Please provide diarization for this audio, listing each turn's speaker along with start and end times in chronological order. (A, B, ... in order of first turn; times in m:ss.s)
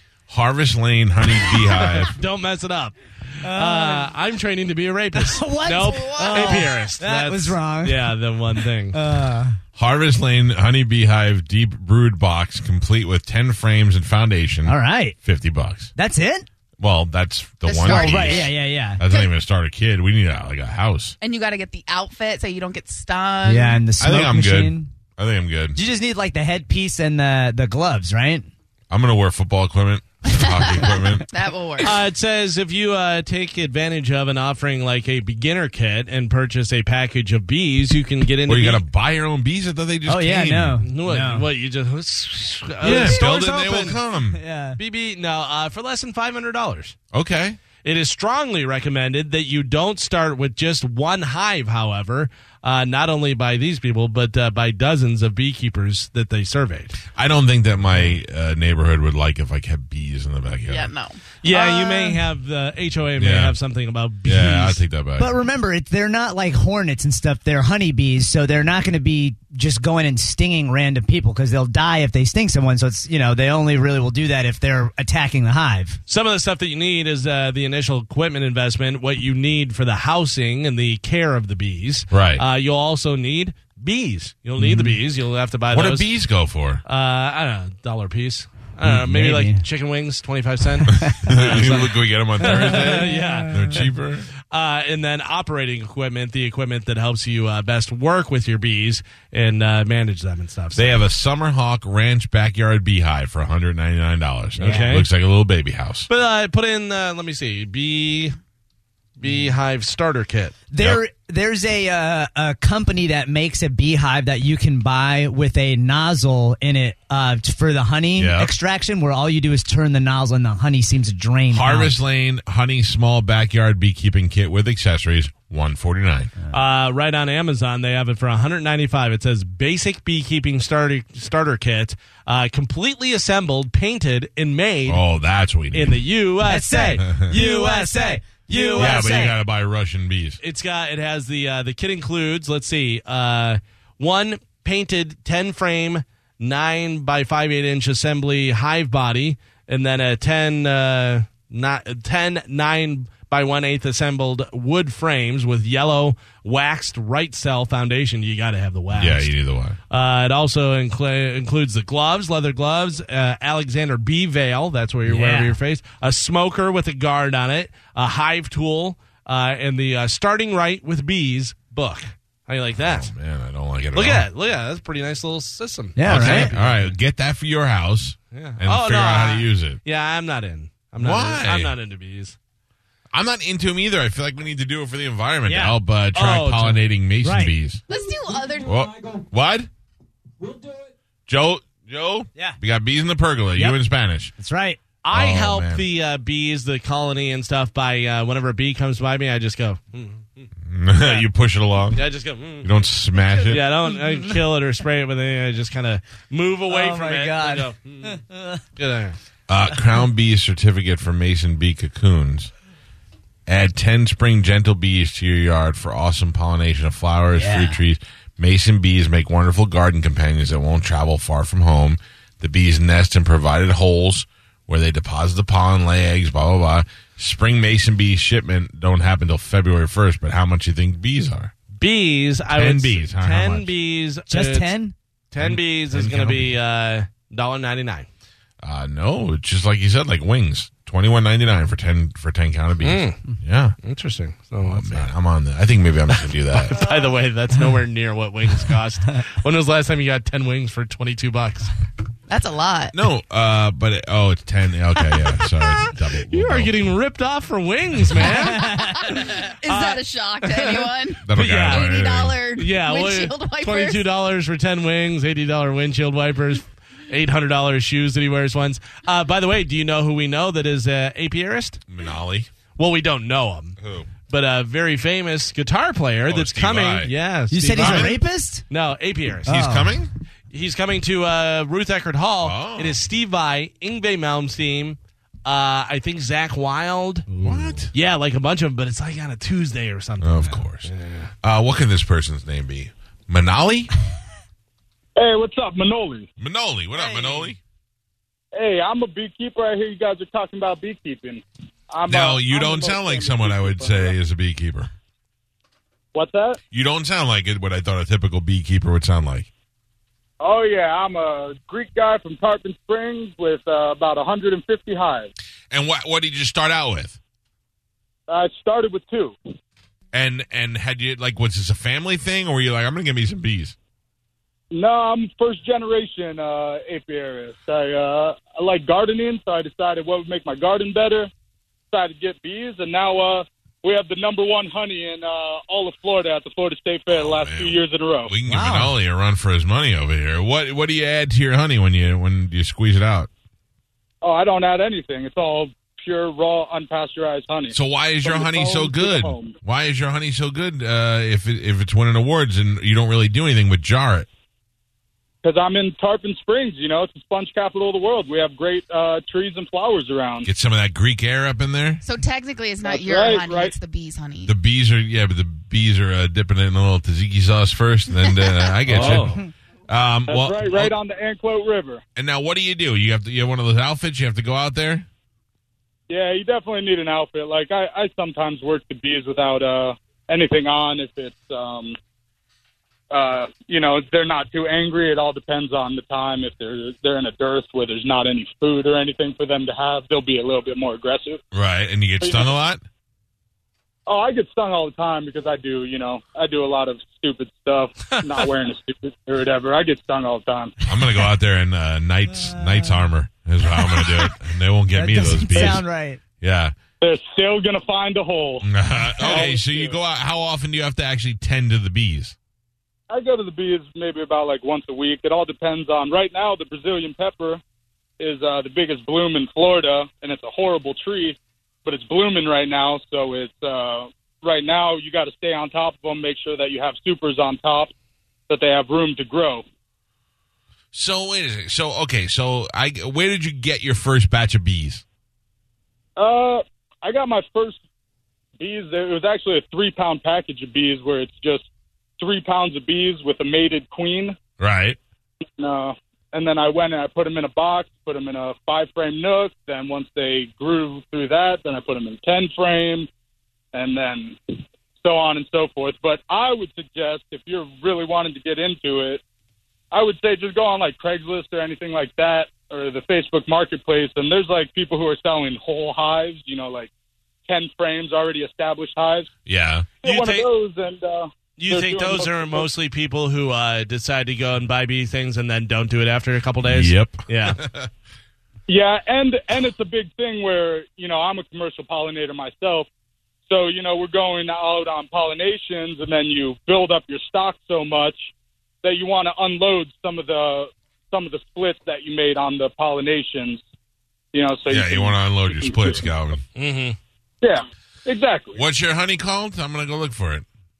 0:00.3-0:02.1 A
0:01.8-0:09.0 B
0:03.4-0:04.1 C
0:05.1-0:09.6 C
0:05.9-0:06.6 D
0:09.8-0:15.9 A
0:14.6-0:15.2 C
0:16.0-0:16.5 C
0:16.8-0:21.2 A
0:17.6-0:18.5 D
0:17.8-0:19.0 C
0:19.0-0:19.3 D
0:21.2-0:23.8 D
0:23.4-0:24.9 C
0:24.0-0:25.8 A
0:25.7-0:28.5 C
0:28.9-0:31.2 A
0:30.3-0:32.0 D
0:31.8-0:38.8 B
0:38.5-0:40.8 A
0:40.0-0:41.5 C
0:40.8-0:44.0 B
0:42.8-0:44.4 A
0:42.8-0:44.8 C
0:44.8-0:46.9 B
0:47.1-0:47.6 A
0:47.8-0:57.0 B
0:57.1-1:00.9 A
1:00.7-1:01.2 D
1:01.4-1:04.8 B
1:01.5-1:02.2 C
1:03.2-1:03.5 A
1:04.2-1:05.3 A
1:05.2-1:16.0 C
1:16.1-1:26.1 B
1:22.1-1:22.4 A
1:24.6-1:24.9 C
1:24.6-1:24.9 A
1:25.7-1:26.8 A
1:26.8-1:33.9 B
1:28.8-1:29.6 C
1:31.0-1:34.3 A
1:31.0-1:31.4 C
1:32.4-1:33.9 C
1:34.5-1:41.0 B
1:40.7-1:46.1 A
1:44.5-1:45.1 B
1:44.6-1:45.0 C
1:46.1-1:48.4 B
1:49.2-1:50.6 B
1:50.7-2:02.0 C
1:58.2-1:58.5 A
2:01.5-2:06.3 A
2:06.5-2:15.0 B
2:14.9-2:16.0 A
2:15.7-2:19.2 B
2:16.4-2:19.4 C
2:18.8-2:20.4 A
2:20.4-2:39.3 B
2:38.9-2:39.8 A
2:39.9-2:53.1 B
2:45.0-2:45.6 C
2:52.8-2:54.2 A
2:53.9-2:56.9 B
2:56.0-2:56.5 C
2:56.0-2:59.8 A
2:58.3-3:02.4 B
3:01.0-3:01.7 A
3:03.1-3:07.8 A
3:05.4-3:05.8 C
3:06.1-3:06.8 B
3:07.2-3:07.5 C
3:07.9-3:08.8 D
3:08.6-3:09.7 A
3:11.3-3:14.3 A
3:13.5-3:13.8 C
3:14.4-3:14.8 C
3:15.0-3:21.2 B
3:15.1-3:15.8 A
3:20.7-3:22.0 A
3:21.9-3:22.7 B
3:22.6-3:23.6 A
3:23.3-3:24.4 C
3:23.5-3:28.2 B
3:26.7-3:28.6 C
3:28.8-3:29.2 B
3:29.5-3:32.5 A
3:33.5-3:51.5 A
3:37.3-3:37.8 C
3:51.8-3:54.7 B
3:52.5-3:53.7 A
3:54.3-3:54.9 C
3:55.3-3:58.1 B
3:55.4-3:56.5 A
3:58.6-4:03.8 A
4:02.8-4:03.2 B
4:03.8-4:05.1 B
4:04.6-4:06.8 A
4:06.8-4:11.7 B
4:12.3-4:12.9 D
4:12.9-4:16.7 A
4:15.7-4:21.9 B
4:18.5-4:18.8 C
4:19.0-4:24.1 D
4:21.2-4:22.4 A
4:22.6-4:31.8 B
4:31.9-4:32.5 A
4:32.8-4:33.8 B
4:33.8-4:34.1 A
4:34.3-4:39.5 B
4:36.3-4:37.1 A
4:37.5-4:38.6 C
4:37.7-4:38.2 A
4:39.4-4:40.1 C
4:39.4-4:40.1 A
4:40.5-4:47.3 B
4:42.4-4:43.0 A
4:47.3-4:47.8 C
4:47.4-4:47.9 A
4:47.9-4:51.3 B
4:50.2-4:50.9 A
4:51.4-4:53.9 A
4:55.2-4:56.3 E
4:56.4-4:57.6 A
4:58.5-5:04.2 E
5:02.1-5:04.9 A
5:06.1-5:06.6 E
5:06.7-5:09.5 A
5:10.4-5:15.3 E
5:15.7-5:17.2 A
5:18.3-5:19.4 E
5:20.1-5:23.7 A
5:24.7-5:31.3 E
5:31.9-5:38.3 E
5:37.1-5:43.3 A
5:38.4-5:39.0 C
5:44.2-5:49.6 E
5:47.7-5:54.3 A
5:55.4-6:00.5 E
6:00.4-6:02.0 A
6:02.0-6:04.5 D
6:02.8-6:03.7 E
6:04.4-6:10.9 A
6:08.9-6:09.4 B
6:10.3-6:12.0 E
6:12.2-6:15.1 A
6:16.1-6:22.0 E
6:23.1-6:31.4 E
6:31.5-6:32.8 A
6:32.2-6:32.5 E
6:34.1-6:40.7 E
6:38.1-6:38.4 B
6:40.8-6:45.9 A
6:42.3-6:43.0 C
6:44.9-6:46.2 C
6:46.4-6:46.7 A
6:47.0-6:48.6 E
6:48.6-6:52.3 A
6:49.2-6:50.0 E
6:53.1-6:57.6 E
6:58.2-7:07.9 E
7:08.5-7:09.6 E
7:10.9-7:15.0 A
7:16.2-7:17.8 E
7:18.6-7:21.6 E
7:22.2-7:24.4 E
7:24.6-7:25.0 A
7:25.6-7:33.1 E
7:33.7-7:34.4 E
7:35.0-7:39.2 E
7:39.9-7:46.9 E
7:47.4-7:49.3 E
7:49.4-7:49.9 A
7:50.0-7:52.7 E
7:50.0-7:50.5 B
7:51.6-7:57.6 B
7:56.6-7:57.9 A
7:58.7-8:02.9 E
8:03.5-8:08.3 E
8:08.8-8:13.6 E
8:14.3-8:16.1 E
8:14.7-8:16.4 A
8:16.6-8:17.0 B
8:17.4-8:18.6 E
8:18.5-8:20.4 A